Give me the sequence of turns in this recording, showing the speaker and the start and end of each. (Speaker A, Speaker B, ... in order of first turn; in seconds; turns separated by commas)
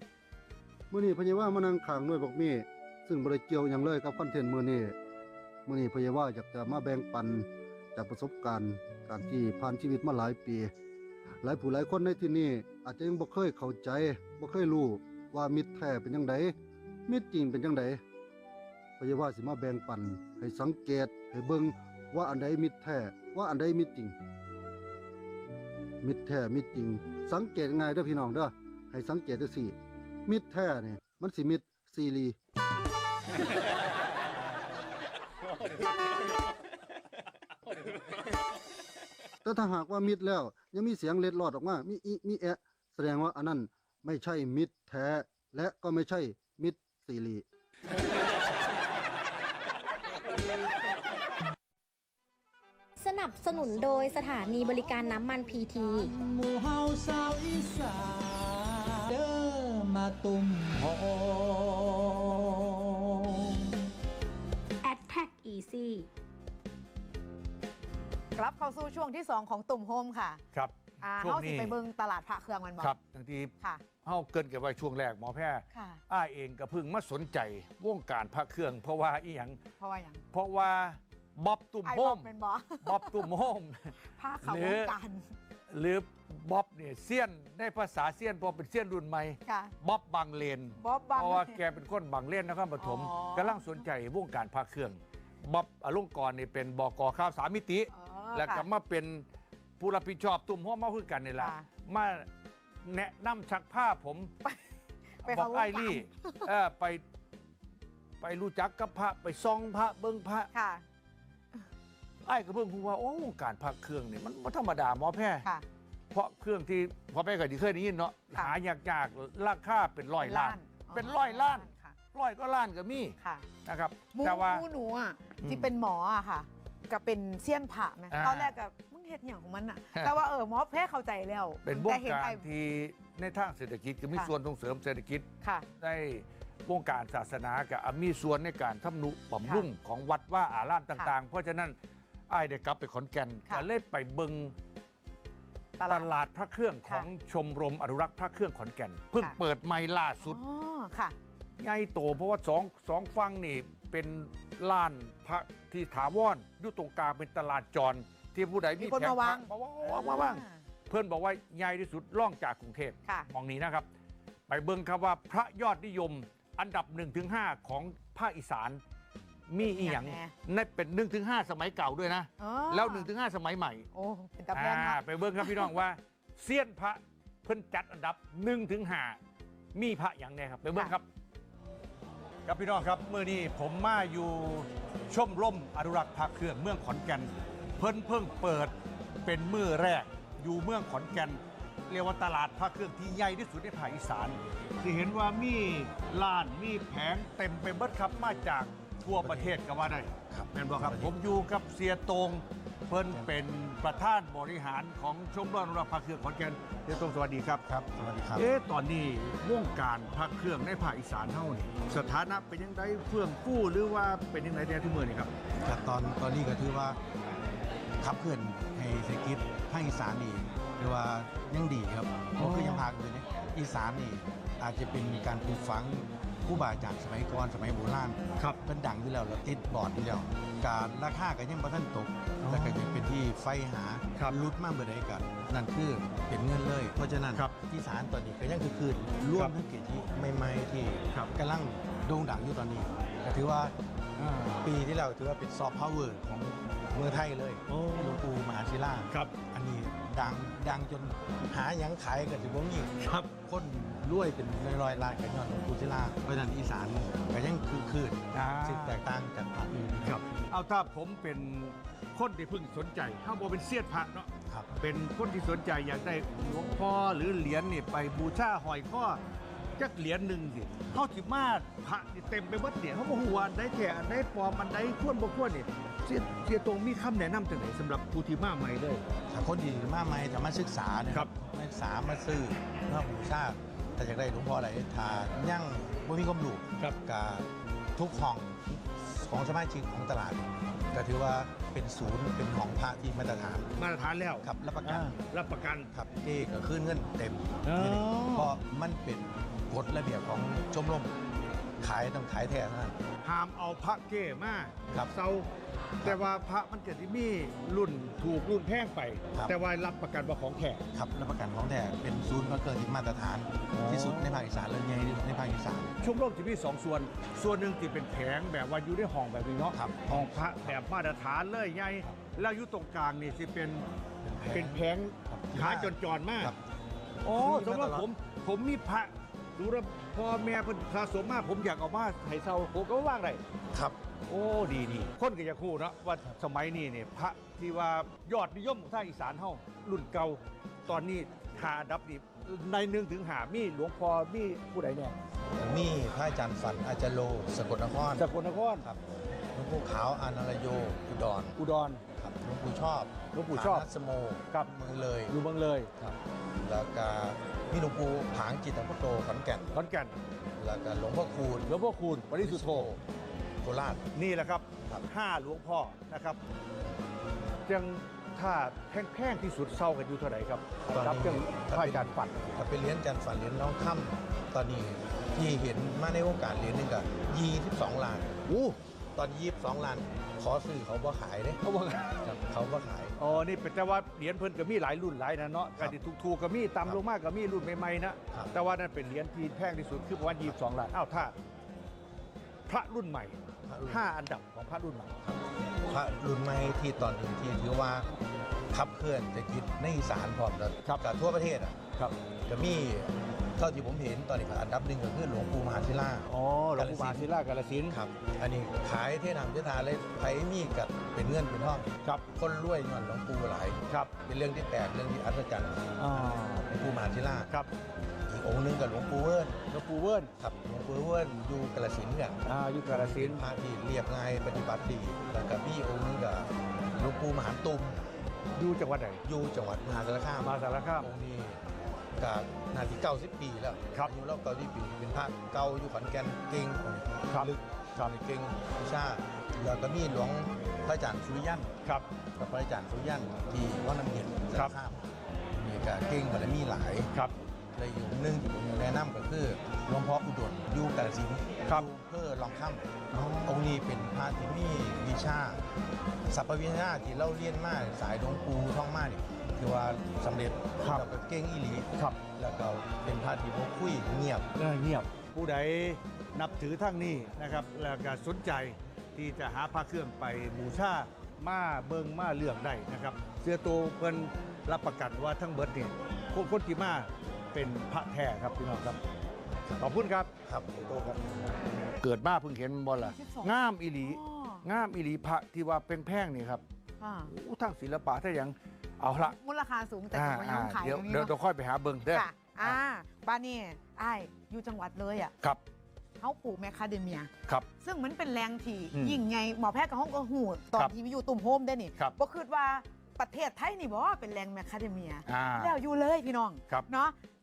Speaker A: 0.9-5.0, Speaker A: 5.7-10.7, Speaker A: 11.4-16.5, Speaker A: 17.1-18.0, Speaker A: 19.0-24.1, Speaker A: 26.0-29.7, Speaker A: 30.2-32.4, Speaker A: 39.4-47.4, Speaker B: 53.0-56.1, Speaker C: 53.5-63.8, Speaker B: 64.8-66.1, Speaker D: 68.3-70.4, Speaker E: 70.5-71.8, Speaker D: 71.0-72.9, Speaker E: 72.8-73.5, Speaker E: 74.0-79.6, Speaker D: 75.7-76.0, Speaker D: 79.8-80.2, Speaker E: 80.3-82.3, Speaker D: 81.8-83.2, Speaker E: 82.8-85.0, Speaker D: 84.2-85.2, Speaker E: 85.7-99.2, Speaker D: 89.5-89.7, Speaker D: 90.8-91.6, Speaker D: 92.8-93.8, Speaker D: 97.9-98.7, Speaker E: 99.8-102.2, Speaker D: 101.4-101.6, Speaker E: 102.8-104.3, Speaker D: 105.2-106.5, Speaker E: 105.2-107.0, Speaker E: 108.2-110.5, Speaker D: 110.5-110.8, Speaker E: 112.2-115.5, Speaker E: 116.1-124.6, Speaker D: 120.2-122.0, Speaker D: 124.1-132.4, Speaker E: 125.4-125.7, Speaker E: 128.1-128.5, Speaker E: 131.6-135.2, Speaker E: 135.8-141.7, Speaker E: 142.3-144.5, Speaker D: 145.8-146.1, Speaker E: 145.9-150.4, Speaker D: 150.2-151.1, Speaker E: 151.6-163.8, Speaker D: 158.8-160.6, Speaker E: 164.5-168.8, Speaker E: 169.5-173.9, Speaker D: 169.6-170.3, Speaker D: 172.4-173.1, Speaker D: 173.9-175.7, Speaker E: 174.5-179.2, Speaker E: 179.7-181.0, Speaker E: 182.4-188.7, Speaker E: 189.2-207.6, Speaker F: 199.1-199.6, Speaker F: 200.3-201.1, Speaker F: 207.7-208.5, Speaker E: 208.3-215.3, Speaker F: 215.6-217.0, Speaker F: 218.0-243.7, Speaker E: 222.4-222.9, Speaker E: 232.4-233.1, Speaker E: 234.1-234.4, Speaker E: 244.2-244.7, Speaker F: 244.6-260.2, Speaker E: 247.7-248.2, Speaker E: 253.0-253.3, Speaker E: 258.3-259.0, Speaker E: 260.0-269.2, Speaker E: 269.8-279.0, Speaker F: 279.3-293.7, Speaker E: 293.8-295.9, Speaker F: 294.4-295.1, Speaker F: 295.9-301.1, Speaker E: 297.6-298.5, Speaker F: 301.8-302.9, Speaker E: 303.2-305.5, Speaker E: 306.0-310.9, Speaker F: 310.9-315.9, Speaker E: 313.7-314.4, Speaker E: 316.0-323.8, Speaker F: 319.7-320.8, Speaker F: 324.3-326.6, Speaker E: 324.5-326.5, Speaker E: 327.2-333.4, Speaker F: 327.3-328.1, Speaker F: 333.7-334.0, Speaker E: 334.3-345.2, Speaker F: 345.6-348.2, Speaker E: 348.1-348.8, Speaker F: 349.5-351.6, Speaker E: 351.6-352.0, Speaker F: 352.2-355.4, Speaker E: 353.3-353.8, Speaker E: 355.3-355.9, Speaker F: 356.0-359.7, Speaker E: 359.7-360.1, Speaker F: 360.6-361.7, Speaker E: 361.7-362.9, Speaker F: 362.4-363.0, Speaker F: 363.6-364.0, Speaker E: 364.1-366.4, Speaker E: 367.7-372.5, Speaker F: 370.9-378.4, Speaker E: 378.5-378.8, Speaker F: 379.1-381.6, Speaker E: 381.6-382.2, Speaker F: 382.2-383.2, Speaker E: 383.2-391.3, Speaker E: 392.7-393.4, Speaker F: 393.7-394.1, Speaker E: 393.9-395.2, Speaker F: 395.3-398.1, Speaker F: 398.7-401.8, Speaker F: 402.4-407.3, Speaker E: 406.3-407.9, Speaker F: 407.9-417.5, Speaker E: 416.0-416.7, Speaker F: 418.3-419.6, Speaker E: 419.7-420.3, Speaker F: 420.4-428.0, Speaker E: 422.4-423.4, Speaker E: 428.6-429.2, Speaker F: 429.2-431.6, Speaker E: 430.4-431.1, Speaker F: 432.2-441.7, Speaker E: 437.3-438.1, Speaker F: 442.4-447.1, Speaker F: 447.7-452.9, Speaker E: 453.1-453.7, Speaker F: 453.4-455.6, Speaker F: 456.3-464.5, Speaker E: 464.6-479.0, Speaker E: 479.8-481.2, Speaker F: 480.4-480.8, Speaker E: 482.0-486.6, Speaker D: 483.0-484.6, Speaker D: 487.0-487.3, Speaker E: 487.3-489.4, Speaker D: 489.3-491.3, Speaker E: 490.1-492.8, Speaker D: 492.1-495.3, Speaker D: 496.2-507.1, Speaker E: 498.9-499.2, Speaker E: 505.3-505.7